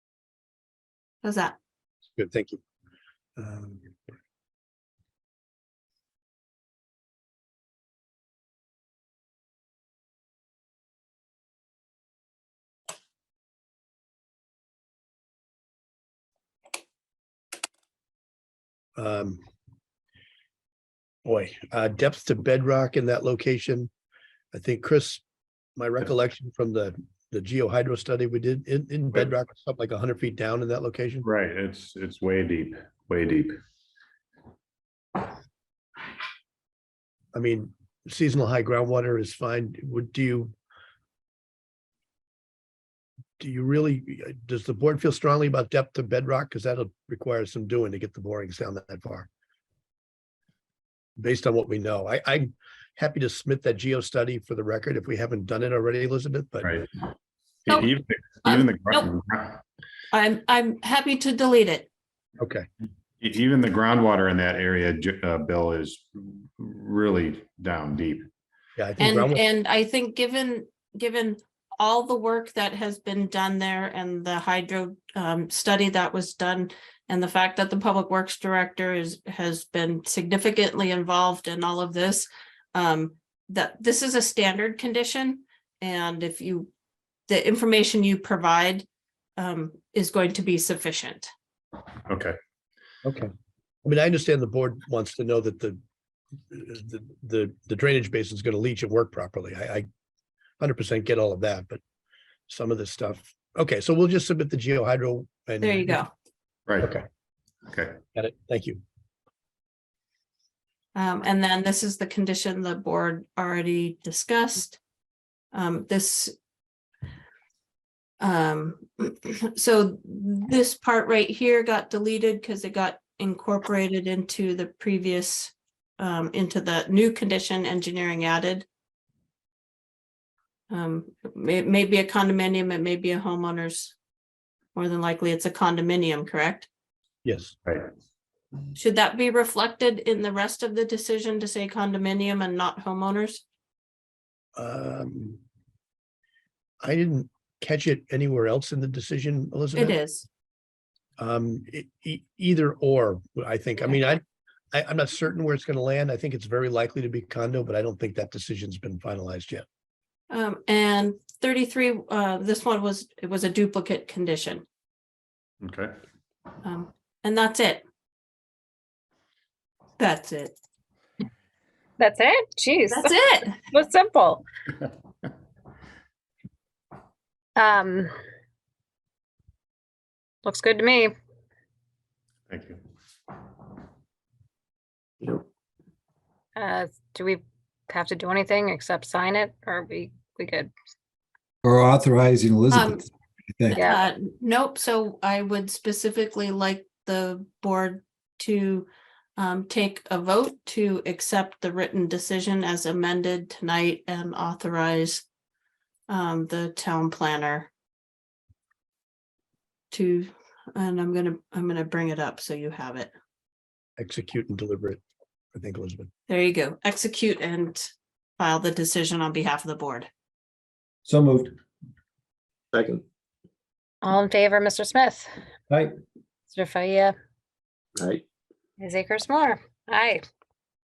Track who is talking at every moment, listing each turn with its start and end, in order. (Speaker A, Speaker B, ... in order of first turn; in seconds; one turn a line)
Speaker A: 1.2-1.6
Speaker B: 2.1-2.6
Speaker B: 3.4-3.9
Speaker B: 19.0-19.4
Speaker B: 21.2-23.9
Speaker B: 24.5-25.2
Speaker B: 25.8-31.2
Speaker C: 31.2-33.5
Speaker B: 37.3-40.5
Speaker B: 43.4-49.3
Speaker B: 51.2-56.7
Speaker C: 56.6-56.9
Speaker C: 57.6-59.6
Speaker A: 58.4-59.0
Speaker A: 60.1-61.9
Speaker B: 62.4-62.6
Speaker C: 63.2-68.3
Speaker B: 68.8-69.4
Speaker A: 69.0-86.7
Speaker A: 87.3-88.8
Speaker A: 89.4-91.3
Speaker C: 92.1-92.4
Speaker B: 93.0-93.3
Speaker B: 93.8-95.8
Speaker B: 96.5-99.9
Speaker B: 100.6-101.8
Speaker B: 102.5-106.0
Speaker A: 105.6-106.1
Speaker C: 106.7-107.0
Speaker C: 107.7-108.0
Speaker B: 108.1-108.8
Speaker A: 110.9-114.8
Speaker A: 115.5-116.3
Speaker A: 118.2-128.7
Speaker A: 130.7-133.9
Speaker A: 134.7-136.7
Speaker B: 137.2-137.5
Speaker A: 138.8-143.4
Speaker B: 144.6-145.4
Speaker B: 146.8-150.0
Speaker A: 149.7-150.3
Speaker B: 151.2-154.2
Speaker B: 154.7-159.6
Speaker A: 160.3-164.6
Speaker C: 165.6-165.9
Speaker A: 166.6-167.8
Speaker A: 170.0-170.5
Speaker D: 172.0-174.4
Speaker A: 172.9-173.6
Speaker D: 177.6-178.1
Speaker D: 180.4-181.1
Speaker C: 182.5-182.8
Speaker D: 186.6-190.7
Speaker E: 191.6-193.8
Speaker A: 192.7-193.0
Speaker D: 193.7-194.1
Speaker A: 193.8-205.2
Speaker A: 206.1-207.7
Speaker A: 209.9-213.1
Speaker B: 214.0-215.0
Speaker B: 215.5-216.1
Speaker A: 216.3-220.1
Speaker E: 221.0-221.5
Speaker E: 222.7-223.0
Speaker D: 224.0-225.3
Speaker D: 226.5-227.1
Speaker D: 228.8-230.2